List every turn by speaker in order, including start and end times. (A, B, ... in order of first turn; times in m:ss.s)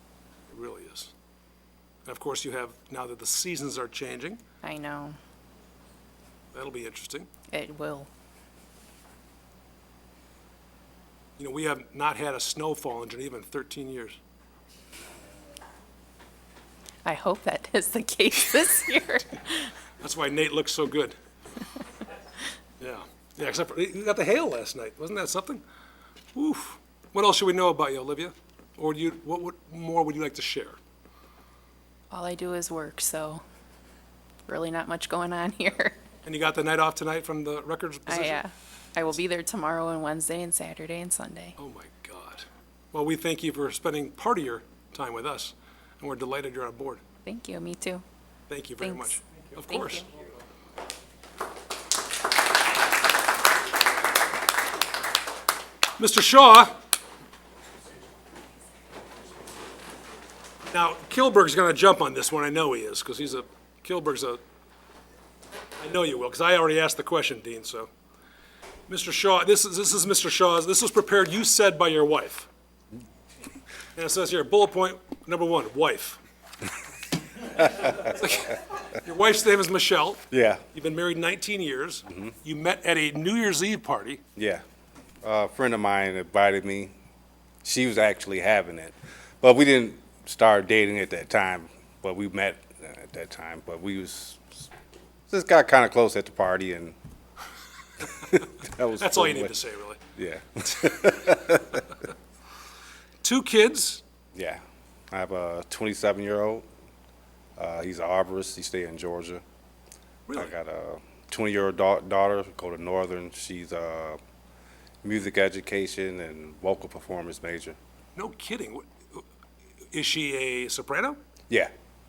0:00.5-0:01.1 A
0:02.1-0:04.4 A
0:04.6-0:05.2 B
0:06.5-0:07.3 A
0:07.5-0:08.1 B
0:11.4-0:14.2 A
0:17.0-0:19.7 B
0:20.0-0:21.2 A
0:22.8-0:25.6 A
0:26.4-0:30.8 A
0:32.1-0:33.4 B
0:34.5-0:36.0 B
0:36.2-0:38.4 A
0:38.1-0:41.6 B
0:41.6-0:47.0 A
0:47.2-0:48.0 B
0:48.5-0:50.1 A
0:48.8-0:49.2 B
0:49.7-0:50.1 B
0:56.0-0:56.8 A
1:00.7-1:04.4 A
1:05.8-1:07.9 A
1:08.9-1:12.5 A
1:14.0-1:16.2 A
1:17.6-1:24.2 A
1:20.3-1:20.6 C
1:24.4-1:24.6 C
1:25.2-1:26.9 C
1:27.6-1:34.7 C
1:35.3-1:37.0 C
1:38.0-1:39.6 C
1:39.0-1:40.0 A
1:40.2-1:41.9 C
1:43.2-1:44.0 A
1:44.4-1:46.6 C
1:47.6-1:49.4 C
1:50.3-1:50.6 A
1:50.4-1:54.2 C
1:55.0-1:57.8 C
1:58.2-1:59.2 A
1:59.9-2:01.2 A